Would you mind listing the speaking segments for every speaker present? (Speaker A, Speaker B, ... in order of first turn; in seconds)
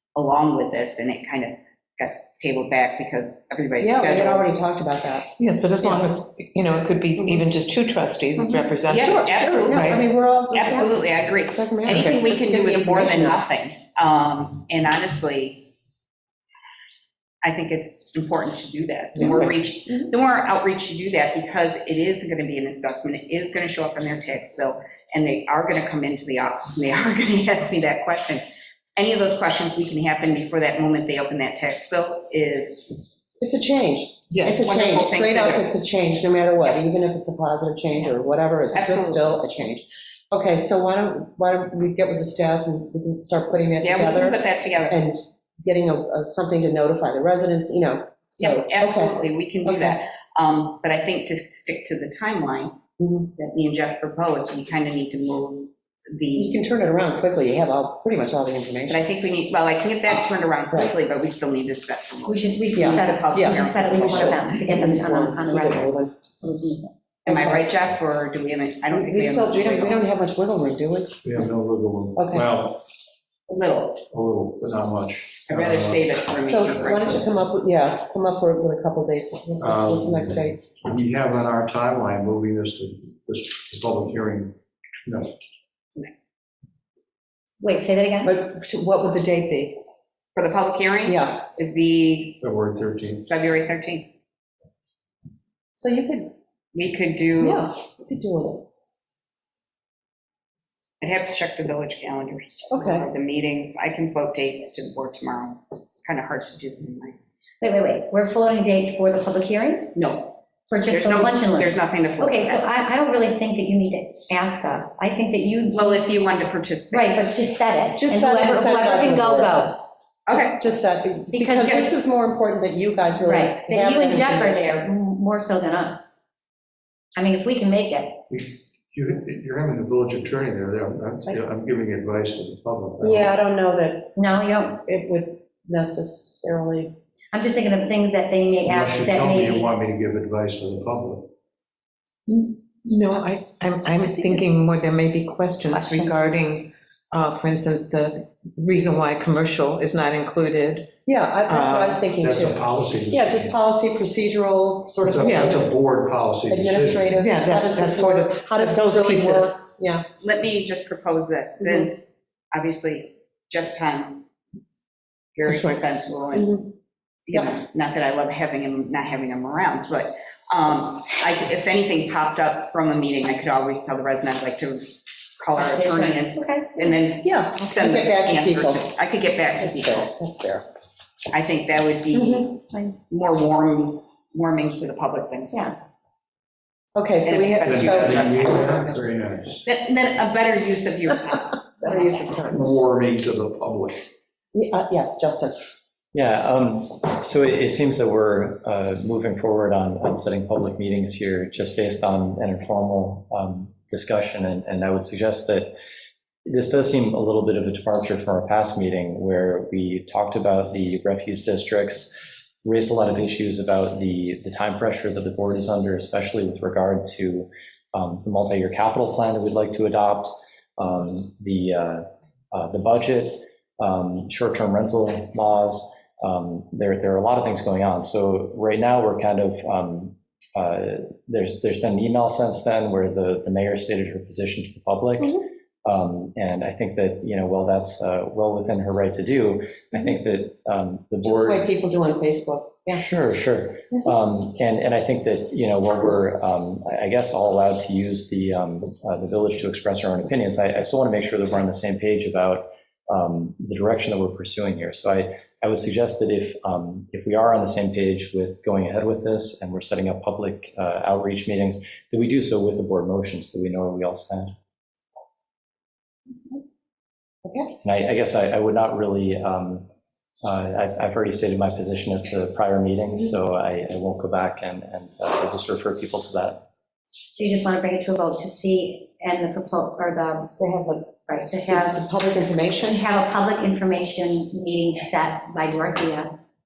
Speaker A: 0.1-4.5, 8.9-15.7, 17.4-28.4, 28.9-33.0, 34.6-35.7, 38.7-39.3, 43.8-45.0, 48.4-52.8, 53.4-56.6, 58.9-64.9, 67.2-70.0, 73.5-74.0, 75.5-77.2, 90.3-92.4, 93.3-94.1, 96.7-97.7, 101.0-107.2, 110.0-112.7, 115.7-117.2, 120.3-120.6, 160.2-164.2, 165.3-166.6, 167.3-180.1, 181.3-185.6, 187.2-188.7, 189.6-192.3
Speaker B: 3.8-5.3, 7.1-7.5, 8.9-13.4, 19.2-20.0, 33.4-50.0, 53.0-53.3, 56.4-59.0, 62.7-67.7, 68.9-71.2, 72.2-72.5, 76.4-80.6, 88.2-89.8, 91.0-91.4, 95.7-96.3, 97.4-98.7, 102.7-103.1, 118.0-119.8, 120.3-124.8, 133.0-134.2, 134.8-136.9, 151.1-155.7, 156.5-160.1, 161.6-161.9, 166.3-166.7, 177.2-178.9, 179.6-180.7, 182.1-182.5, 186.9-188.2, 191.8-192.6, 194.5-195.6, 241.2-243.0, 267.4-267.7, 280.6-283.0
Speaker C: 5.4-10.0, 34.3-34.6, 142.3-150.9, 151.4-152.1, 155.2-155.7, 157.1-159.6, 165.4-165.8
Speaker D: 62.3-66.0, 87.6-88.3, 107.6-110.0, 110.7-116.1, 116.9-119.9, 121.3-121.8, 123.2-126.2, 127.1-128.2, 134.2-134.8, 137.3-139.7, 145.7-146.4, 175.6-177.0, 182.5-182.9, 277.3-280.6, 281.3-282.1, 282.8-286.4
Speaker E: 71.2-72.8, 74.1-76.2, 79.6-85.4, 92.4-93.3, 128.3-133.3, 138.6-141.3, 152.2-153.6, 155.0-157.1, 187.6-189.7, 192.4-194.1
Speaker F: 196.1-205.7, 206.4-212.1, 212.6-241.6, 242.9-264.5, 267.8-269.9, 270.4-276.6